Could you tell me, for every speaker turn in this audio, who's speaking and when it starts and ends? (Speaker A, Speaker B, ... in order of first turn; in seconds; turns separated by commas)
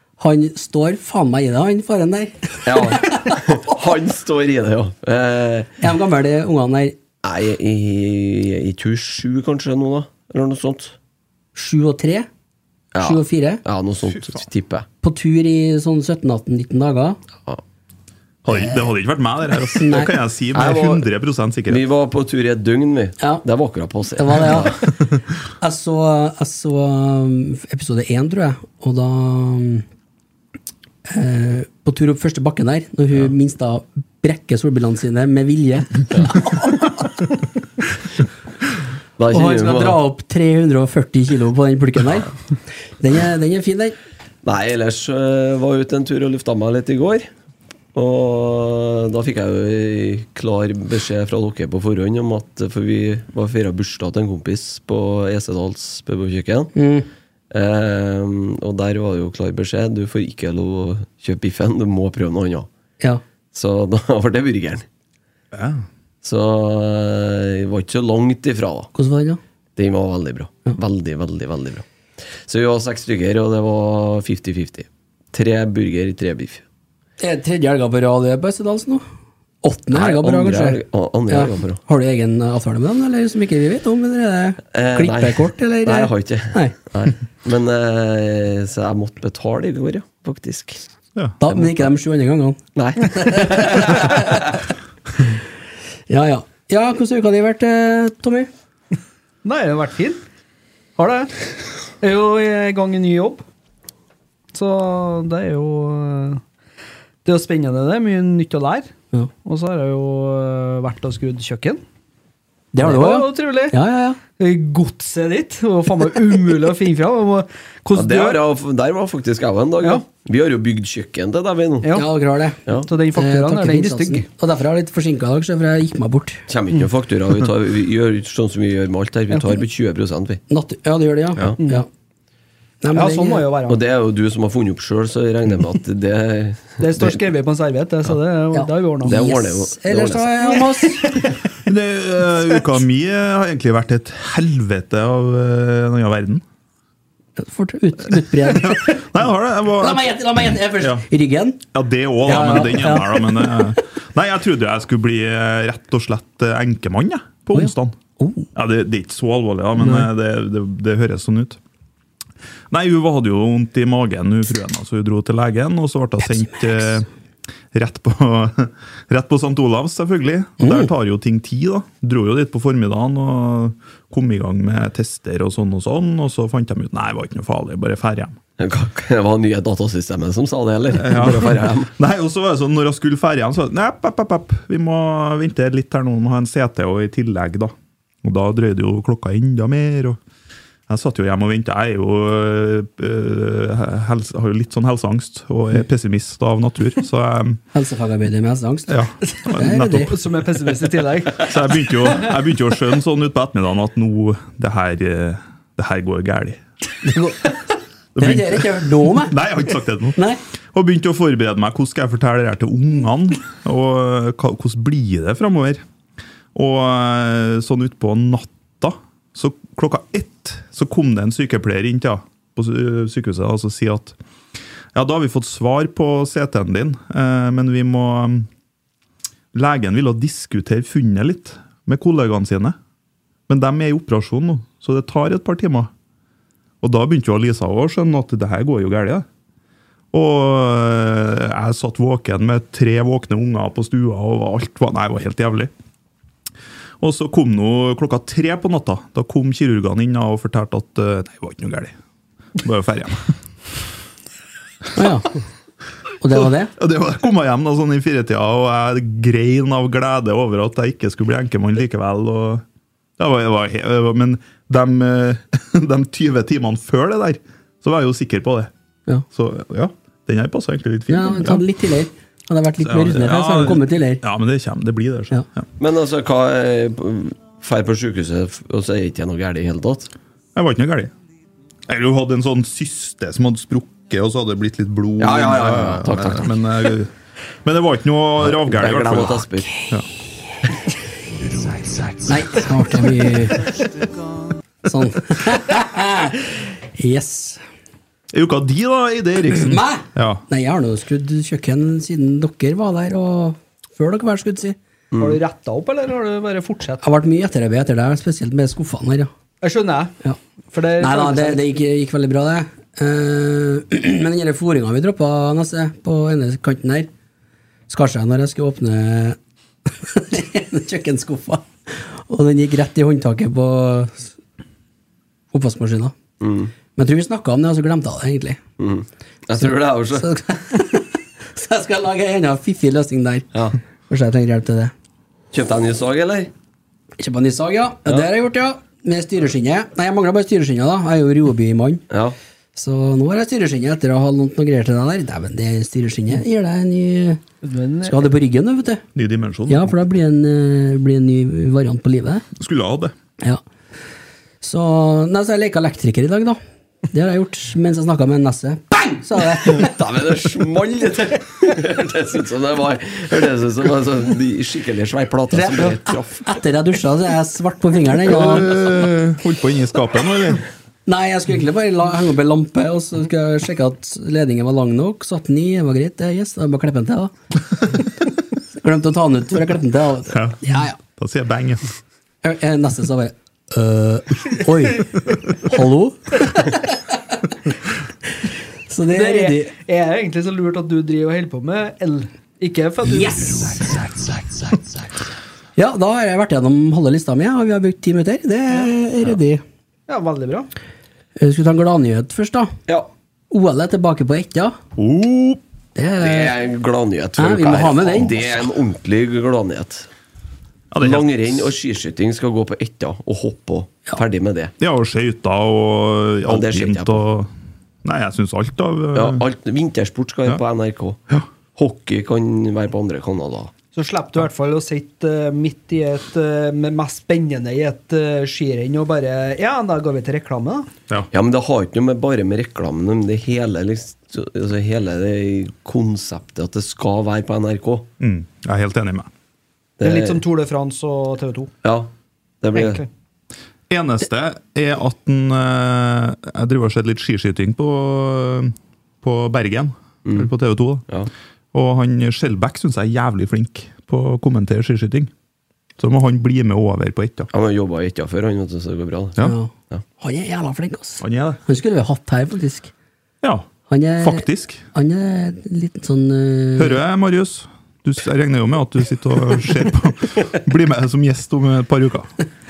Speaker A: 0.2-3.5, Speaker B: 2.6-5.8, Speaker A: 5.8-6.9, Speaker B: 7.2-10.9, Speaker A: 11.5-12.3, Speaker B: 12.9-14.9, Speaker A: 13.0-13.6, Speaker A: 15.0-17.2, Speaker C: 18.4-21.8, Speaker A: 19.7-20.1, Speaker B: 20.5-21.1, Speaker B: 21.7-24.9, Speaker A: 23.2-23.4, Speaker A: 24.1-24.9, Speaker A: 25.6-29.8, Speaker A: 31.1-37.3, Speaker B: 39.2-40.0, Speaker A: 39.3-42.4, Speaker A: 43.0-44.0, Speaker B: 44.4-47.3, Speaker B: 47.9-56.7, Speaker A: 56.7-57.1, Speaker B: 57.5-62.7, Speaker B: 63.5-64.8, Speaker C: 65.5-65.8, Speaker B: 66.2-68.9, Speaker A: 68.9-69.4, Speaker B: 69.8-71.8, Speaker B: 72.4-76.6, Speaker A: 77.2-79.0, Speaker A: 79.6-86.7, Speaker B: 79.9-81.8, Speaker B: 84.7-90.8, Speaker A: 91.4-94.5, Speaker B: 92.7-94.5, Speaker A: 96.1-98.5, Speaker D: 99.4-100.2, Speaker D: 101.0-101.3, Speaker D: 102.0-103.4, Speaker D: 104.5-106.4, Speaker D: 107.2-108.9, Speaker D: 109.4-111.8, Speaker A: 112.7-114.2, Speaker D: 112.8-113.8, Speaker D: 114.3-118.4, Speaker B: 117.9-121.9, Speaker D: 121.8-122.1, Speaker A: 121.9-126.4, Speaker D: 122.8-124.2, Speaker B: 126.5-130.4, Speaker A: 130.5-131.9, Speaker D: 131.6-131.8, Speaker A: 132.8-133.4, Speaker D: 132.9-133.8, Speaker B: 133.7-137.2, Speaker D: 136.8-139.2, Speaker A: 138.5-141.2, Speaker B: 139.0-140.6, Speaker D: 140.6-141.3, Speaker C: 141.6-146.4, Speaker A: 147.4-149.0, Speaker C: 148.4-150.1, Speaker A: 149.8-151.6, Speaker C: 150.8-151.0, Speaker C: 151.7-157.9, Speaker A: 152.2-153.6, Speaker A: 157.5-158.5, Speaker C: 158.5-161.6, Speaker A: 159.8-160.1, Speaker C: 162.7-167.1, Speaker A: 166.3-167.0, Speaker C: 167.7-178.4, Speaker A: 170.6-170.9, Speaker B: 178.6-181.9, Speaker C: 181.0-190.2, Speaker C: 190.9-197.6, Speaker A: 197.7-200.1, Speaker C: 198.9-200.2, Speaker D: 199.9-201.6, Speaker C: 201.4-206.6, Speaker A: 207.0-207.5, Speaker C: 208.1-210.2, Speaker A: 208.2-209.3, Speaker A: 210.1-210.4, Speaker C: 210.7-215.8, Speaker C: 216.5-224.2, Speaker C: 224.9-228.5, Speaker C: 229.5-232.8, Speaker C: 233.5-235.9, Speaker C: 236.8-239.2, Speaker C: 240.1-245.7, Speaker C: 247.0-251.9, Speaker C: 252.6-253.3, Speaker A: 254.9-255.3, Speaker A: 256.2-256.7, Speaker C: 256.8-262.6, Speaker C: 263.2-268.7, Speaker C: 269.3-271.6, Speaker A: 271.1-274.2, Speaker C: 272.8-275.7, Speaker B: 275.8-280.1, Speaker C: 280.5-281.1, Speaker C: 281.9-287.1, Speaker B: 285.2-286.6, Speaker C: 287.6-290.0, Speaker B: 288.4-289.7, Speaker B: 291.7-292.3, Speaker A: 292.3-293.8, Speaker A: 294.8-297.6, Speaker C: 298.3-300.4, Speaker A: 299.5-304.8, Speaker B: 305.1-305.4, Speaker D: 305.2-307.0, Speaker A: 307.0-309.3, Speaker D: 309.6-310.1, Speaker D: 310.7-311.6, Speaker A: 311.0-317.1, Speaker A: 317.9-324.3, Speaker A: 325.5-326.1, Speaker B: 326.4-326.7, Speaker A: 326.9-328.6, Speaker B: 328.8-330.3, Speaker A: 330.1-333.5, Speaker B: 333.5-333.8, Speaker A: 334.1-334.9, Speaker B: 335.5-336.5, Speaker A: 337.2-342.0, Speaker B: 342.1-342.4, Speaker A: 342.7-347.4, Speaker D: 347.6-348.3, Speaker A: 348.0-349.0, Speaker C: 349.1-349.9, Speaker A: 349.7-352.4, Speaker C: 352.6-353.1, Speaker A: 354.6-356.6, Speaker A: 357.1-359.9, Speaker B: 359.7-366.4, Speaker A: 365.5-368.8, Speaker C: 368.2-370.6, Speaker A: 371.1-377.3, Speaker A: 378.8-381.0, Speaker C: 380.3-381.9, Speaker A: 382.4-387.3, Speaker A: 388.9-389.7, Speaker D: 389.1-393.9, Speaker A: 393.0-393.8, Speaker A: 395.8-399.6, Speaker D: 400.1-400.7, Speaker A: 401.4-402.7, Speaker A: 403.5-404.8, Speaker C: 404.9-405.6, Speaker A: 405.9-406.6, Speaker B: 406.2-410.1, Speaker A: 407.4-408.4, Speaker C: 410.9-411.7, Speaker B: 411.0-414.7, Speaker C: 414.8-417.5, Speaker B: 416.5-417.2, Speaker C: 418.0-419.4, Speaker B: 419.1-421.2, Speaker B: 421.7-423.7, Speaker D: 423.9-430.9, Speaker B: 431.3-438.1, Speaker C: 438.2-439.3, Speaker B: 440.0-440.4, Speaker D: 440.0-441.7, Speaker B: 441.8-443.0, Speaker D: 442.7-443.1, Speaker C: 443.9-451.1, Speaker B: 450.2-450.5, Speaker C: 451.7-455.3, Speaker C: 456.0-457.5, Speaker B: 457.5-459.4, Speaker A: 459.4-462.9, Speaker C: 461.2-461.6, Speaker C: 463.4-463.7, Speaker A: 463.9-467.0, Speaker C: 464.2-464.8, Speaker C: 466.8-472.3